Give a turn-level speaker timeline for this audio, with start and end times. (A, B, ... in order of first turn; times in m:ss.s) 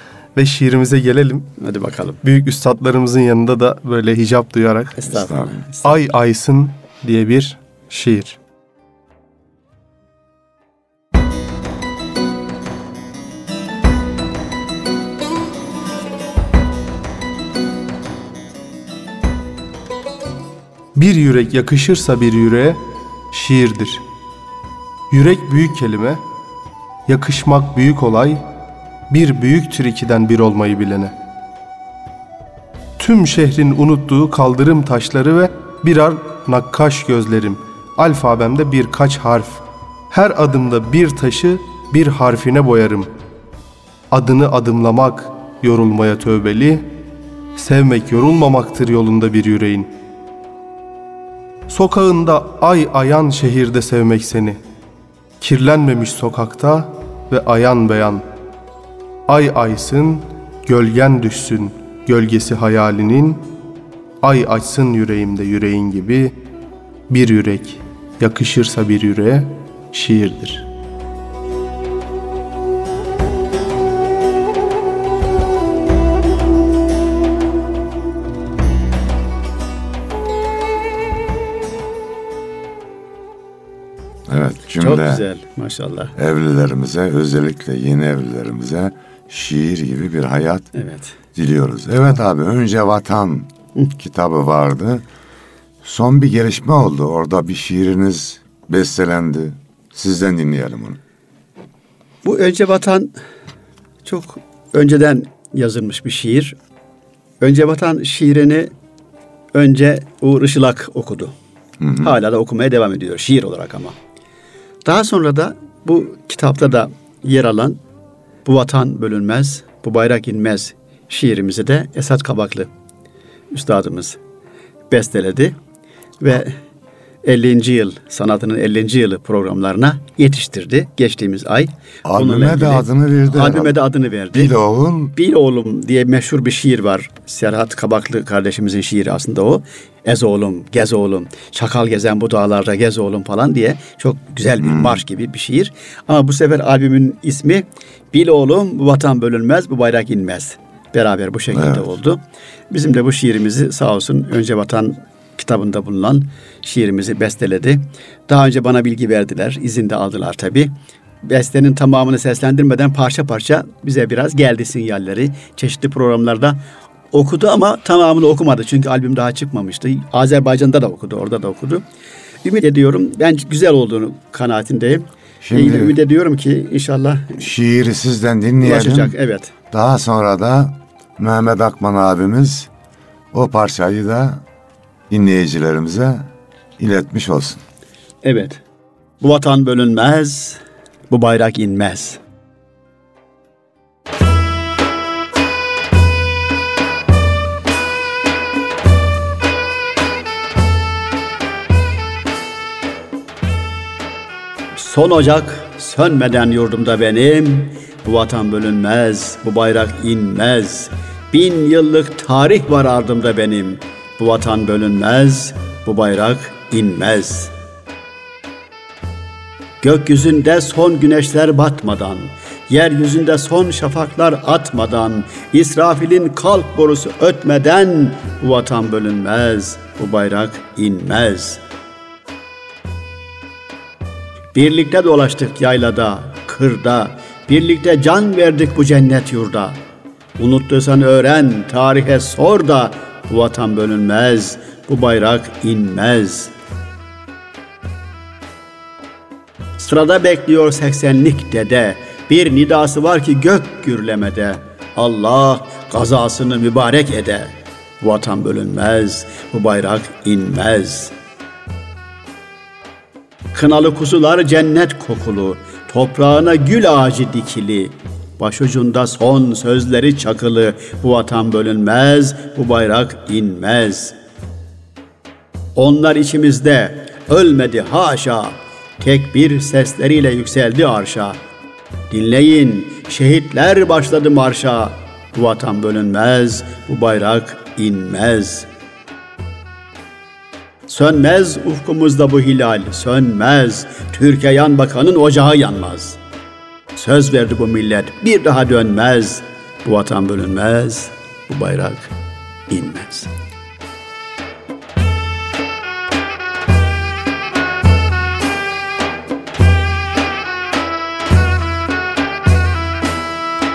0:00.4-0:01.5 A
0:01.6-0:02.2 B
0:02.2-0:05.1 A
0:05.0-0:06.0 B
0:05.1-0:05.6 C
0:05.8-0:08.4 A
0:20.9-0:24.0 A
0:25.1-0:26.2 A
0:27.1-0:28.4 A
0:29.1-0:31.1 A
0:33.0-0:43.1 A
0:44.1-0:46.9 A
0:47.6-0:49.9 A
0:51.7-0:54.6 A
0:55.4-0:58.2 A
0:59.3-1:03.5 A
1:04.2-1:06.4 A
1:07.1-1:10.7 A
1:24.3-1:25.2 C
1:24.8-1:26.1 B
1:26.2-1:30.7 C
1:30.8-1:31.2 B
1:31.4-1:35.0 C
1:35.8-1:41.0 C
1:42.2-1:43.1 B
1:44.0-1:46.6 B
1:47.4-1:48.7 B
1:49.5-1:51.3 B
1:51.8-1:52.1 C
1:52.0-1:54.0 B
1:54.8-1:57.8 B
1:58.4-2:02.7 B
2:03.5-2:04.2 B
2:04.9-2:05.6 B
2:06.2-2:06.6 B
2:07.2-2:14.5 B
2:12.0-2:13.8 C
2:14.3-2:15.1 C
2:15.1-2:46.6 B
2:24.6-2:25.0 C
2:31.5-2:31.9 C
2:47.1-2:51.8 B
2:52.4-2:57.5 B
2:55.4-2:56.0 C
2:57.4-2:59.2 C
2:58.6-2:59.5 B
2:59.7-3:02.7 C
3:03.3-3:04.4 C
3:05.1-3:07.6 C
3:08.2-3:08.6 B
3:09.2-3:12.2 B
3:24.8-3:37.5 B
3:39.8-3:51.6 B
3:54.5-3:59.8 B
4:00.4-4:06.5 B
4:09.8-4:21.1 B
4:23.5-4:34.2 B
4:35.8-4:41.4 B
4:42.1-4:48.7 B
4:50.9-4:56.2 B
4:56.9-5:02.1 B
5:02.7-5:03.3 B